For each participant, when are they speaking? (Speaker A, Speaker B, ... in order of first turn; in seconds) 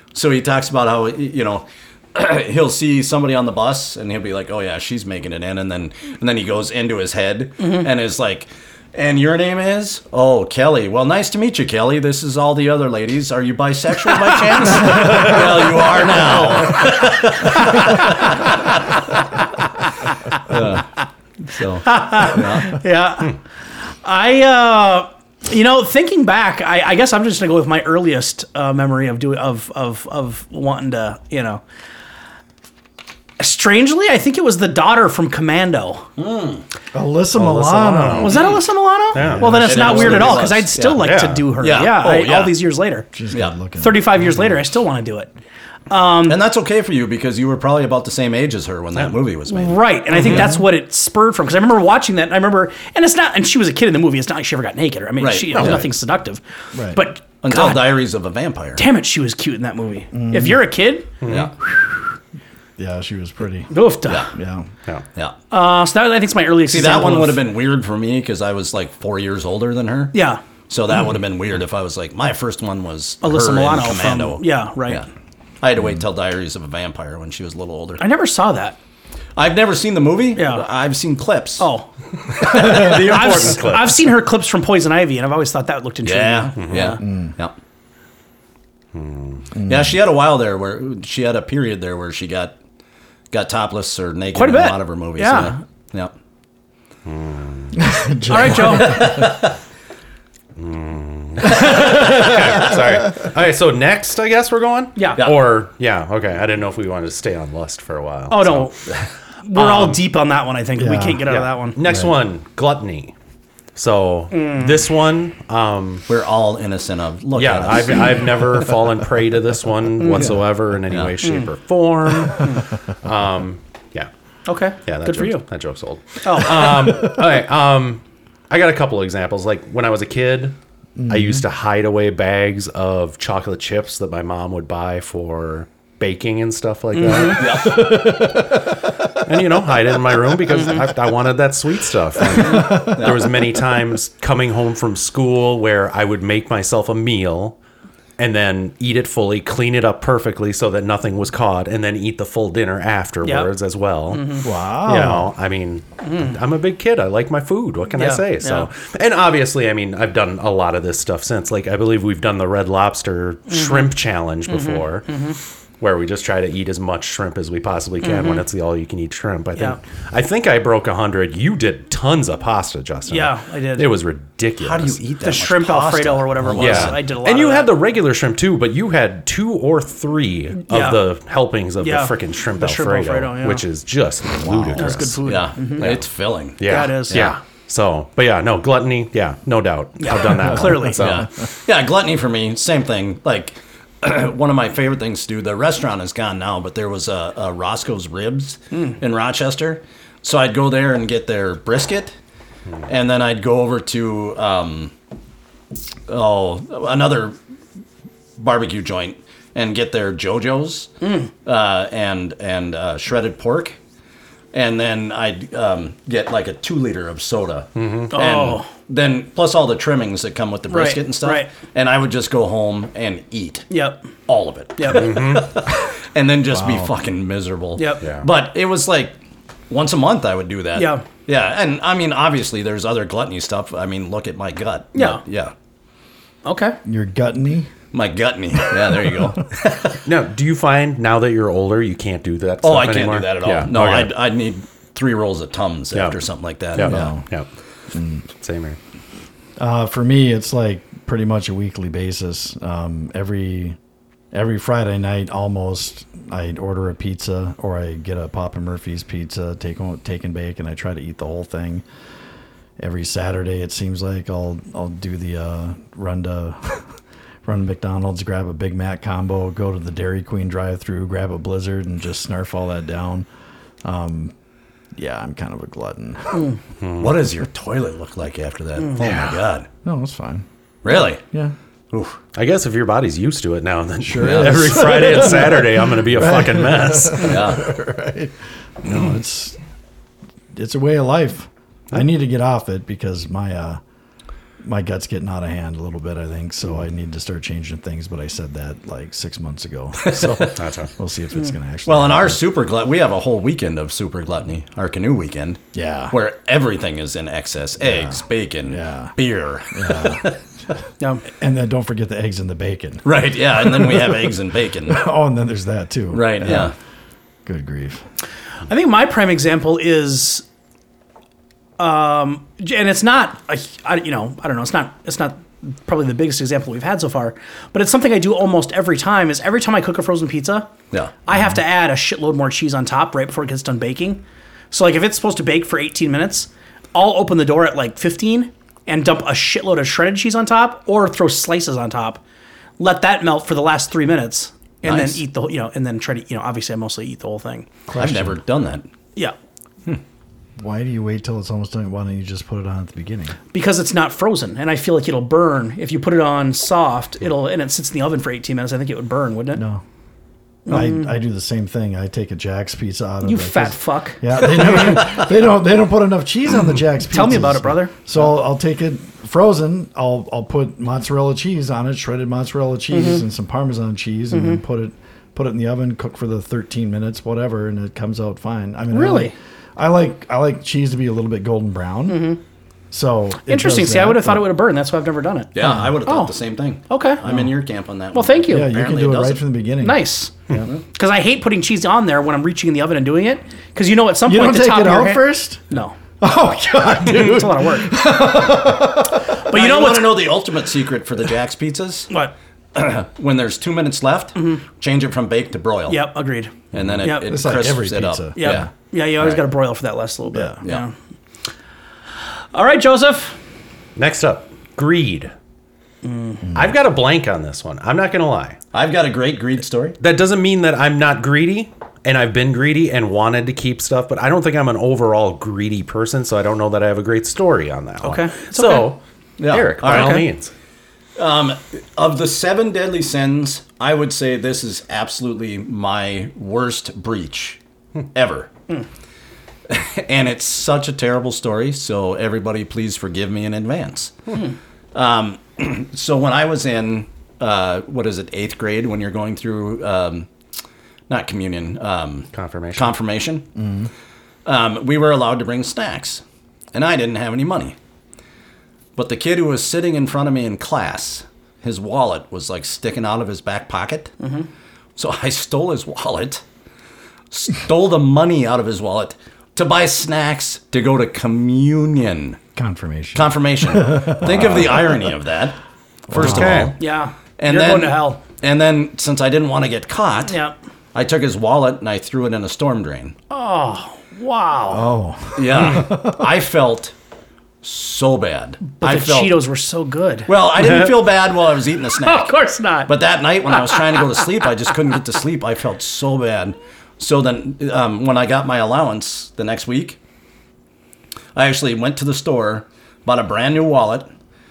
Speaker A: 0.1-18.7, 20.4-20.9, 21.5-22.8, 36.2-36.6, 39.5-41.0, 41.6-42.5, 46.2-50.5, 55.2-55.9, 57.4-58.8, 61.3-61.5, 66.7-70.2, 70.7-75.1, 75.6-78.0, 79.3-81.7, 82.3-83.7, 86.0-87.5, 89.6-92.6, 93.3-96.1, 98.6-99.5, 116.1-118.6, 120.9-121.1, 137.2-138.0, 142.3-143.3, 174.6-177.0, 185.2-187.3, 191.0-202.1, 202.8-204.9, 206.1-207.4, 208.4-210.9, 211.4-213.8, 214.5-223.7, 224.3-229.1, 229.7-235.5, 237.9-240.0, 242.6-247.1, 277.0-279.7, 280.8-281.2, 281.9-282.2, 284.2-284.9, 287.2-287.7, 300.0-300.6, 301.9-310.4, 313.0-315.0, 316.1-316.7, 344.8-345.2, 348.0-348.9, 364.8-365.2, 385.5-389.4, 399.5-402.1, 402.7-406.0, 406.7-409.4, 418.7-420.0, 429.4-430.2, 431.2-437.6, 438.1-438.5, 439.7-444.4, 444.9-450.3, 451.1-453.5, 454.4-457.8, 458.9-464.1, 464.9-466.4, 467.3-472.4, 473.1-475.6, 476.1-476.8, 477.4-480.4, 480.9-483.1, 485.3-486.9, 487.6-489.4, 490.3-500.0, 501.3-504.1
Speaker B: 17.8-18.1, 21.8-23.4, 24.0-31.6, 33.4-36.1, 38.2-43.1, 43.7-45.3, 45.9-46.4, 49.5-56.4, 56.9-58.0, 58.8-61.1, 63.7-64.3, 65.5-67.4, 70.1-70.4, 73.2-75.0, 78.0-78.8, 80.3-80.7, 81.6-87.0, 94.3-95.6, 98.3-99.1, 105.0-105.2, 108.3-108.7, 109.4-111.8, 114.3-114.8, 120.0-120.3, 122.3-122.6, 124.5-125.4, 126.2-126.8, 136.9-137.4, 153.2-153.5, 154.1-154.4, 157.9-158.7, 163.5-163.9, 164.5-165.3, 168.0-168.4, 173.1-173.9, 175.2-177.7, 180.7-181.0, 181.8-183.6, 184.8-185.9, 186.6-187.3, 190.0-191.1, 211.0-211.3, 218.1-218.7, 220.7-221.5, 223.7-224.1, 224.8-225.2, 227.8-228.1, 230.7-231.0, 234.9-235.2, 236.4-236.8, 318.7-320.4, 321.8-330.7, 331.2-342.2, 342.8-347.7, 353.5-359.6, 360.7-361.1, 363.2-364.4, 367.1-367.9, 372.9-373.2, 374.3-374.6, 378.9-379.3, 382.1-382.4, 383.4-385.5, 386.0-386.3, 386.9-387.2, 388.1-388.7, 389.8-390.3, 390.9-395.9, 397.0-398.0, 399.4-400.4, 404.4-404.6, 405.9-407.4, 408.4-410.9, 412.5-413.4, 416.0-416.4, 428.0-428.9, 429.8-430.3, 476.8-478.2, 480.3-480.5, 483.3-484.9, 488.6-490.3, 492.0-492.9, 493.4-494.5
Speaker C: 36.9-38.4, 39.1-40.4, 43.1-44.1, 50.3-50.6, 56.7-57.0, 60.1-60.6, 62.8-63.7, 64.3-64.7, 87.0-87.3, 89.5-89.8, 97.7-99.4, 101.6-102.2, 110.8-111.2, 111.8-112.1, 131.0-131.4, 137.6-138.6, 142.4-143.0, 154.4-155.3, 226.5-226.9, 236.8-237.7, 238.8-239.2, 246.8-247.2, 247.9-248.2, 249.6-253.8, 254.3-261.8, 262.8-266.9, 267.4-273.3, 273.8-274.3, 274.9-276.5, 279.8-280.4, 281.3-281.5, 284.0-289.6, 290.5-293.8, 294.6-302.4, 305.7-306.1, 307.8-309.1, 309.7-310.3, 311.3-314.3, 314.9-316.7, 317.4-318.0, 347.9-348.4, 350.6-353.3, 359.5-359.8, 360.7-382.3, 382.9-384.5, 385.6-385.9, 387.2-387.5, 388.5-390.7, 394.2-395.6, 396.2-399.3, 407.2-408.7, 410.3-410.6, 453.6-453.9, 472.6-475.0, 476.1-476.7, 484.7-486.3
Speaker D: 37.3-38.6, 39.1-40.4, 40.9-41.5, 61.2-61.5, 82.4-84.1, 86.6-86.9, 88.9-89.5, 97.0-97.8, 100.5-108.7, 109.5-110.0, 111.3-113.1, 113.7-116.0, 117.3-124.1, 124.8-138.5, 139.1-147.6, 148.2-165.2, 165.8-175.0, 176.5-186.1, 186.6-191.3, 217.8-218.1, 224.9-225.6, 240.0-244.1, 245.9-246.2, 246.7-247.5, 248.3-248.8, 276.8-277.1, 279.0-279.4, 282.3-287.5, 300.4-300.9, 413.9-415.3, 416.5-418.6, 420.0-430.5, 452.3-452.9, 476.1-476.7